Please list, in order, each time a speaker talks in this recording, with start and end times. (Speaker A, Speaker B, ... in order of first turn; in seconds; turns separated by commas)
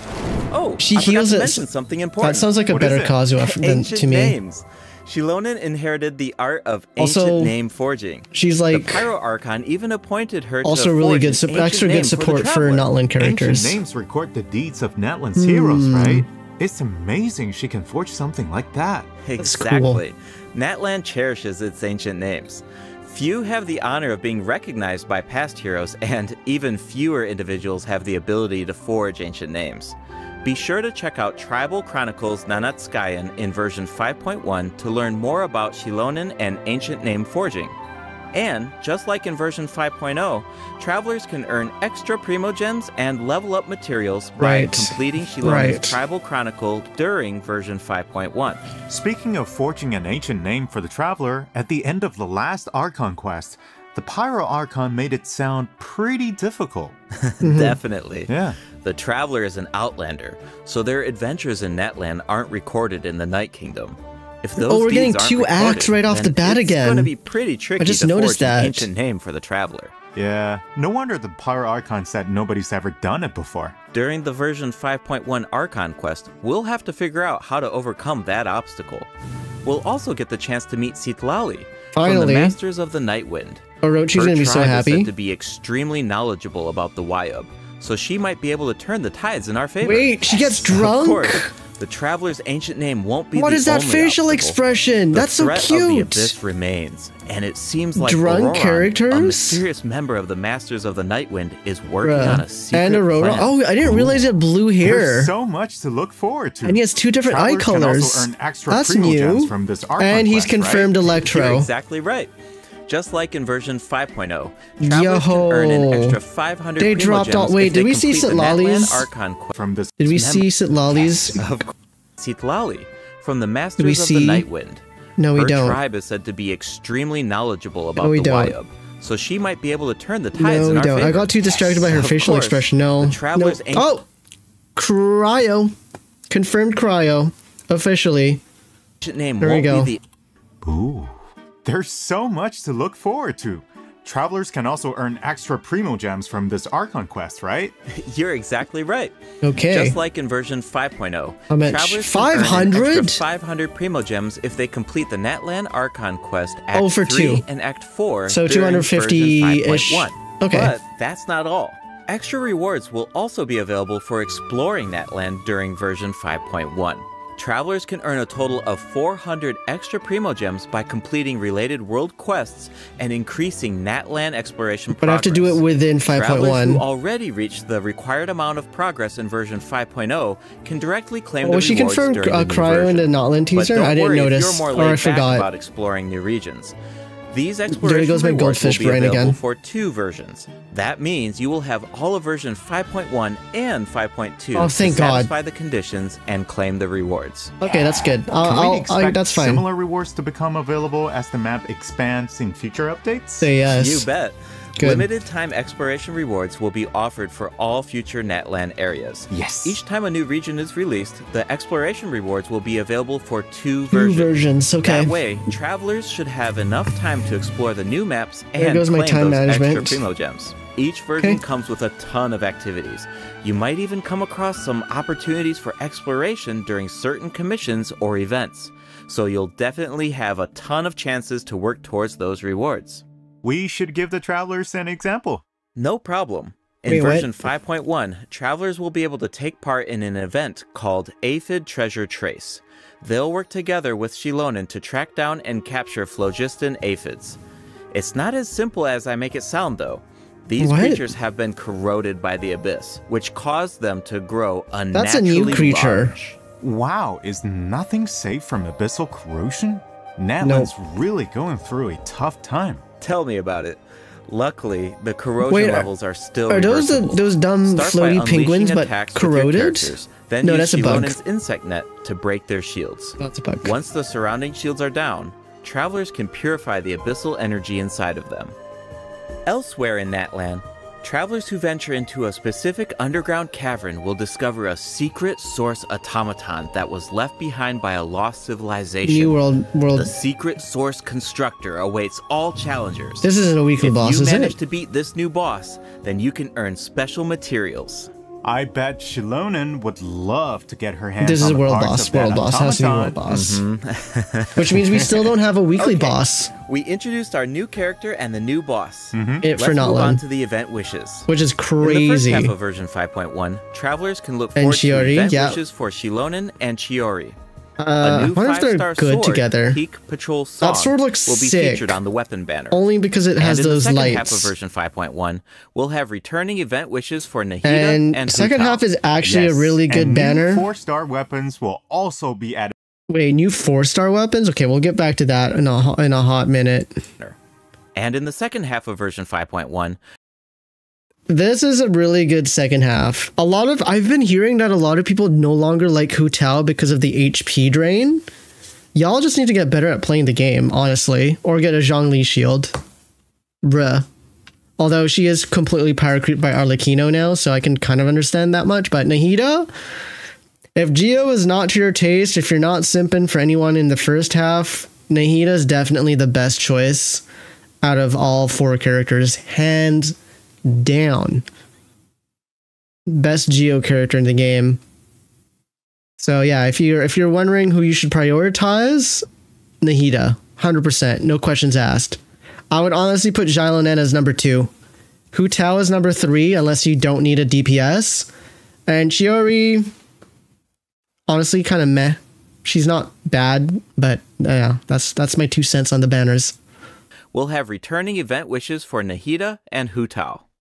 Speaker A: 0.5-2.5, Speaker B: 0.8-1.6, Speaker B: 2.2-4.3, Speaker C: 2.7-3.2, Speaker A: 3.4-12.9, Speaker B: 7.0-7.5, Speaker B: 8.3-9.1, Speaker B: 10.6-13.8, Speaker C: 13.2-19.1, Speaker B: 15.3-16.3, Speaker A: 19.2-37.8, Speaker B: 19.4-20.0, Speaker A: 38.3-48.6, Speaker B: 44.4-46.0, Speaker C: 48.9-57.0, Speaker A: 57.1-69.9, Speaker B: 57.4-57.8, Speaker C: 58.3-58.6, Speaker B: 64.6-67.1, Speaker B: 67.8-68.9, Speaker C: 70.1-73.8, Speaker A: 73.9-79.1, Speaker A: 79.6-83.6, Speaker B: 81.9-82.5, Speaker B: 83.8-85.1, Speaker A: 84.1-94.6, Speaker B: 89.8-91.5, Speaker B: 93.3-96.3, Speaker A: 95.1-103.5, Speaker B: 98.0-99.6, Speaker B: 102.0-105.3, Speaker C: 103.8-104.2, Speaker C: 104.8-110.9, Speaker B: 106.6-111.7, Speaker A: 111.3-112.3, Speaker A: 112.9-119.5, Speaker B: 114.8-116.2, Speaker B: 116.8-119.1, Speaker C: 119.5-120.2, Speaker B: 120.0-121.5, Speaker A: 120.1-120.4, Speaker A: 121.0-124.8, Speaker B: 123.8-124.5, Speaker B: 125.2-125.8, Speaker A: 125.3-133.9, Speaker B: 128.0-128.5, Speaker B: 130.3-134.1, Speaker B: 134.7-135.7, Speaker B: 136.3-138.4, Speaker A: 139.0-140.0, Speaker B: 139.4-139.9, Speaker C: 140.6-147.7, Speaker A: 147.9-149.2, Speaker B: 149.4-150.0, Speaker A: 149.7-186.7, Speaker B: 151.5-153.2, Speaker B: 156.7-157.4, Speaker B: 158.3-160.7, Speaker B: 174.9-176.8, Speaker B: 181.4-185.4, Speaker A: 187.3-197.5, Speaker B: 187.7-189.4, Speaker B: 194.5-195.3, Speaker B: 197.6-199.6, Speaker C: 198.3-203.5, Speaker B: 203.4-204.1, Speaker A: 203.7-214.3, Speaker B: 204.8-205.0, Speaker C: 209.3-209.8, Speaker B: 213.9-215.1, Speaker A: 214.8-233.0, Speaker B: 218.6-220.0, Speaker C: 233.4-235.4, Speaker A: 235.8-247.4, Speaker B: 236.8-237.4, Speaker A: 247.9-256.4, Speaker B: 250.6-251.1, Speaker B: 254.9-256.1, Speaker C: 256.6-262.8, Speaker B: 260.4-260.7, Speaker A: 263.0-278.5, Speaker B: 265.4-265.9, Speaker B: 266.5-271.2, Speaker B: 273.2-273.7, Speaker A: 279.4-289.4, Speaker B: 289.0-290.1, Speaker A: 289.9-293.3, Speaker B: 293.2-294.6, Speaker A: 293.8-298.1, Speaker C: 298.4-303.1, Speaker B: 301.2-303.6, Speaker A: 303.3-311.3, Speaker B: 304.6-306.5, Speaker C: 309.1-309.4, Speaker B: 309.4-310.2, Speaker B: 311.3-312.5, Speaker A: 311.8-317.4, Speaker B: 314.6-315.6, Speaker B: 317.8-319.8, Speaker A: 318.0-322.8, Speaker B: 320.6-322.0, Speaker B: 322.7-324.5, Speaker A: 323.4-328.8, Speaker B: 327.6-330.7, Speaker C: 329.2-332.7, Speaker B: 333.1-337.0, Speaker A: 337.9-340.0, Speaker B: 341.3-348.2, Speaker B: 348.9-352.7, Speaker B: 353.6-354.1, Speaker B: 354.8-359.7, Speaker B: 360.7-367.2, Speaker B: 367.8-371.4, Speaker B: 373.1-374.8, Speaker B: 376.2-379.2, Speaker B: 379.8-382.2, Speaker B: 382.7-384.7, Speaker B: 385.3-388.3, Speaker B: 388.9-389.9, Speaker B: 391.3-396.6, Speaker A: 397.3-400.4